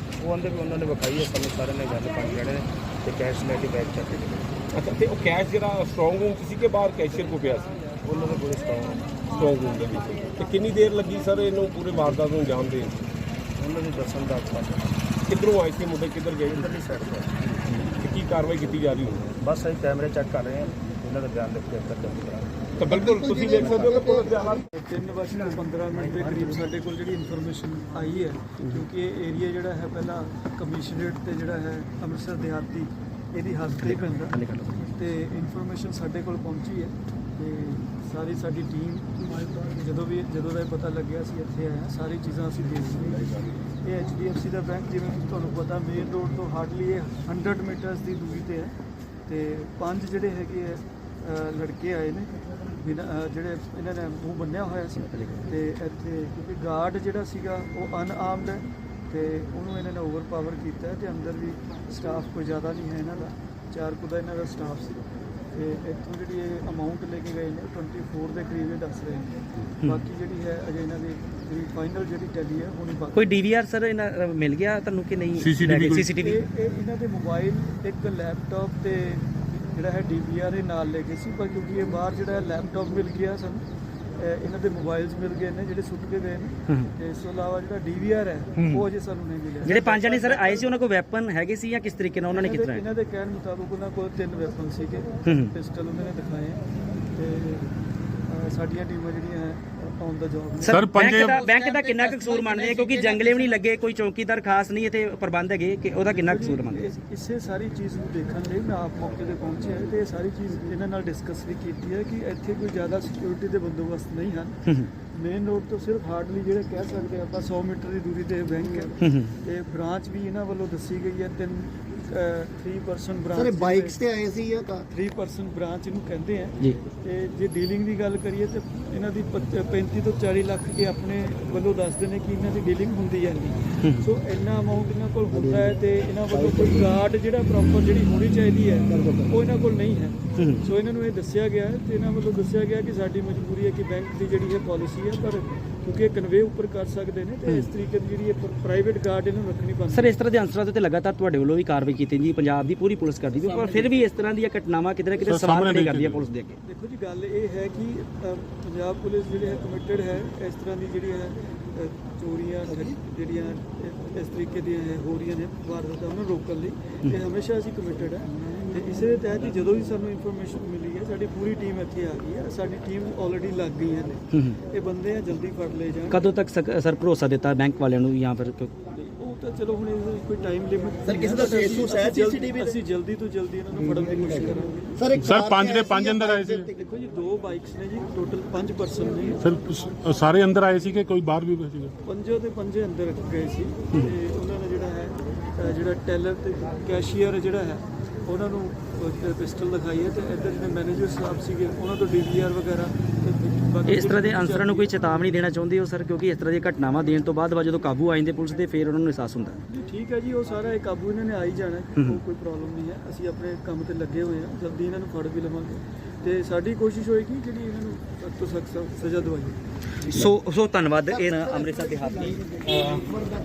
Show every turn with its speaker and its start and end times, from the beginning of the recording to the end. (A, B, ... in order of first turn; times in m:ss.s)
0:00.2-0:04.6 A
0:04.7-0:07.8 B
0:08.0-0:09.1 A
0:09.3-0:13.0 B
0:13.6-0:15.0 A
0:15.3-0:16.8 B
0:16.5-0:17.3 A
0:17.8-0:19.3 B
0:19.4-0:22.5 A
0:22.8-0:24.6 B
0:24.7-0:34.4 C
0:25.9-0:26.6 A
0:33.8-0:35.0 D
0:34.9-0:48.8 C
0:49.3-1:05.0 C
0:55.0-0:55.5 D
1:05.5-1:13.4 C
1:13.2-1:16.4 D
1:15.4-1:16.1 E
1:16.2-1:23.6 C
1:24.2-1:30.7 C
1:29.6-1:32.8 D
1:32.3-1:36.6 C
1:35.2-1:35.5 D
1:37.1-1:37.7 C
1:38.3-1:40.8 C
1:40.6-1:47.0 D
1:40.7-1:41.4 E
1:41.4-1:43.4 F
1:46.1-1:54.6 C
1:55.1-2:04.0 C
1:59.0-1:59.3 D
2:03.4-2:04.8 F
2:04.9-2:30.2 C
2:18.9-2:19.3 F
2:20.4-2:20.6 D
2:29.9-2:36.6 D
2:33.5-2:33.9 F
2:35.2-2:36.3 E
2:36.6-2:56.3 C
2:54.3-2:54.6 D
2:56.1-2:58.7 D
2:58.9-3:05.0 C
3:01.1-3:02.7 F
3:05.0-3:06.7 F
3:05.2-3:06.7 E
3:06.7-3:09.5 C
3:09.4-3:11.9 E
3:12.0-3:25.2 C
3:23.8-3:29.6 D
3:29.7-3:39.6 C
3:32.0-3:32.2 D
3:40.1-3:43.1 D